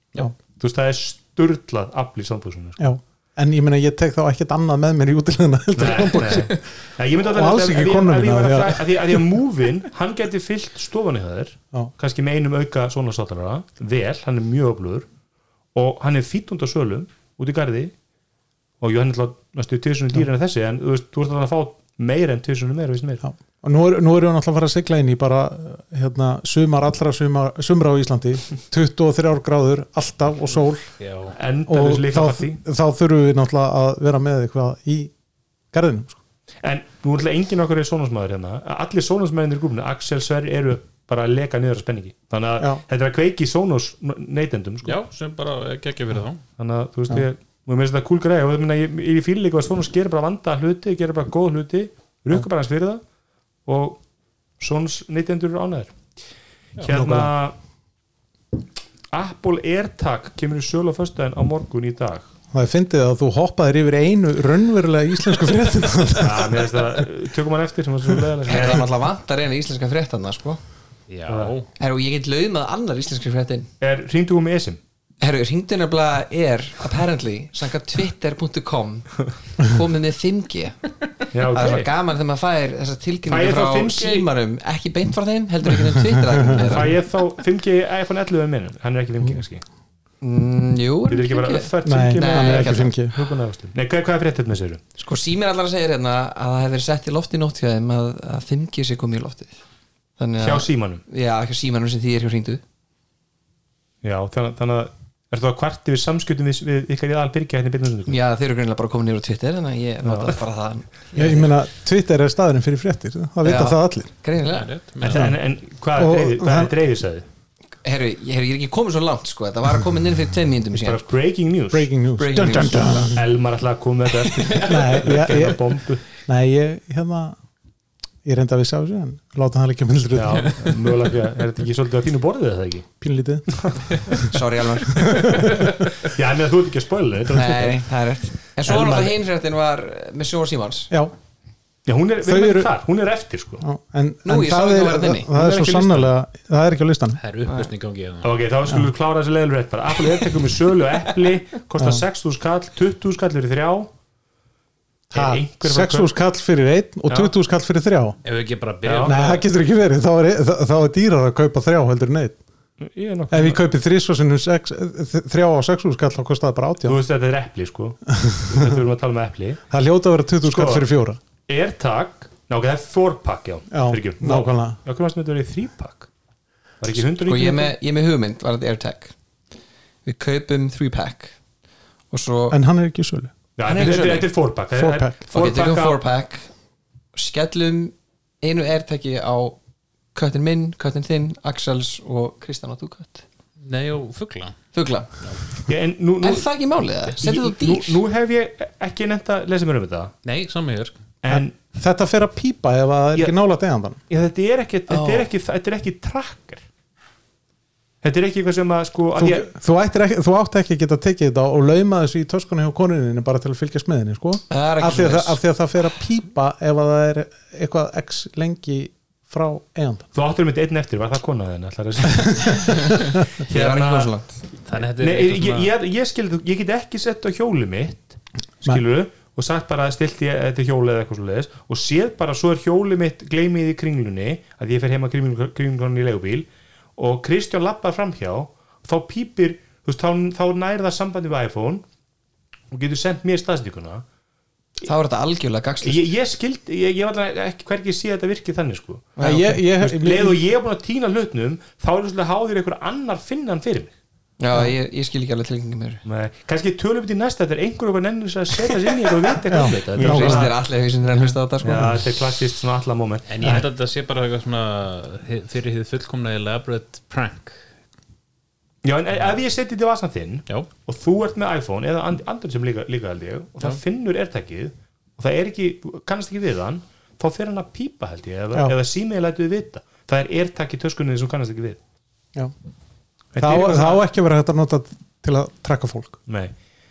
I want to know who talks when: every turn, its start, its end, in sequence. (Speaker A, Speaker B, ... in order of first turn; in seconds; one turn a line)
Speaker A: 0.6-2.8
Speaker B: 2.8-6.6
Speaker A: 5.8-15.1
Speaker B: 7.2-9.2
Speaker A: 15.8-17.9
Speaker A: 18.8-23.2
Speaker B: 23.2-30.9
Speaker C: 31.0-31.4
Speaker A: 31.4-32.6
Speaker B: 31.7-35.1
Speaker B: 35.7-36.2
Speaker A: 36.6-45.0
Speaker C: 44.8-46.4
Speaker A: 46.6-53.0
Speaker A: 53.6-54.0
Speaker A: 54.6-55.9
Speaker A: 56.8-57.5
Speaker B: 56.8-57.3
Speaker A: 59.1-62.3
Speaker B: 62.5-66.7
Speaker A: 66.2-68.8
Speaker D: 68.4-70.6
Speaker C: 71.1-71.7
Speaker A: 71.3-71.5
Speaker D: 71.8-73.7
Speaker A: 73.8-74.8
Speaker D: 75.2-80.8
Speaker A: 81.3-81.9
Speaker D: 81.5-86.9
Speaker A: 83.2-84.3
Speaker B: 86.2-86.8
Speaker A: 86.5-89.6
Speaker D: 90.2-92.9
Speaker A: 91.1-94.8
Speaker B: 91.8-93.1
Speaker D: 95.0-99.6
Speaker D: 100.2-102.6
Speaker A: 100.4-101.0
Speaker A: 104.0-108.2
Speaker D: 108.1-111.6
Speaker A: 110.0-110.4
Speaker B: 111.1-114.1
Speaker D: 113.4-114.7
Speaker C: 114.5-115.3
Speaker A: 115.0-117.2
Speaker B: 115.1-115.4
Speaker B: 116.0-116.8
Speaker D: 117.8-121.0
Speaker A: 120.7-121.9
Speaker B: 121.7-123.2
Speaker D: 122.2-123.2
Speaker A: 122.6-126.0
Speaker B: 124.5-125.7
Speaker B: 126.2-127.4
Speaker B: 128.2-130.9
Speaker A: 130.1-132.9
Speaker B: 133.0-134.3
Speaker A: 133.5-134.2
Speaker D: 134.2-135.5
Speaker B: 134.9-135.8
Speaker A: 135.4-137.8
Speaker D: 137.3-140.9
Speaker A: 138.7-139.1
Speaker A: 141.9-143.6
Speaker B: 142.2-142.7
Speaker B: 143.6-147.2
Speaker D: 144.2-145.3
Speaker A: 145.3-146.1
Speaker C: 147.2-148.3
Speaker A: 148.2-153.9
Speaker B: 151.8-152.0
Speaker A: 155.1-156.1
Speaker B: 155.1-158.2
Speaker A: 157.1-157.3
Speaker C: 158.2-159.5
Speaker A: 158.8-159.2
Speaker B: 159.0-162.4
Speaker A: 162.8-163.6
Speaker B: 163.3-167.0
Speaker A: 166.8-169.6
Speaker B: 168.1-168.8
Speaker B: 169.7-171.2
Speaker A: 170.4-170.9
Speaker A: 171.5-176.1
Speaker B: 173.7-174.8
Speaker A: 176.8-177.8
Speaker D: 177.2-179.1
Speaker D: 180.0-181.3
Speaker D: 182.1-182.6
Speaker B: 182.5-183.3
Speaker A: 183.6-186.0
Speaker D: 183.6-184.3
Speaker B: 184.7-185.1
Speaker D: 185.3-186.5
Speaker D: 187.1-189.6
Speaker D: 190.1-193.2
Speaker C: 193.6-194.6
Speaker D: 194.7-195.1
Speaker A: 195.7-196.5
Speaker D: 196.2-198.0
Speaker A: 197.1-200.1
Speaker C: 200.2-201.0
Speaker A: 201.2-201.5
Speaker B: 201.3-204.0
Speaker A: 204.1-206.6
Speaker D: 204.9-205.3
Speaker A: 208.0-209.5
Speaker B: 209.2-220.1
Speaker D: 214.5-215.4
Speaker A: 220.1-224.1
Speaker D: 223.5-224.4
Speaker C: 224.6-225.7
Speaker A: 225.0-236.4
Speaker A: 237.0-241.8
Speaker A: 242.7-244.0
Speaker D: 244.8-246.1
Speaker A: 245.8-249.2
Speaker D: 249.2-249.6
Speaker B: 249.2-250.4
Speaker A: 249.8-253.9
Speaker D: 254.4-256.0
Speaker A: 256.0-260.6
Speaker B: 259.5-260.5
Speaker D: 259.9-262.0
Speaker A: 261.6-263.7
Speaker C: 263.3-267.6
Speaker A: 268.8-281.8
Speaker A: 283.3-284.0
Speaker B: 283.4-286.2
Speaker A: 286.3-286.5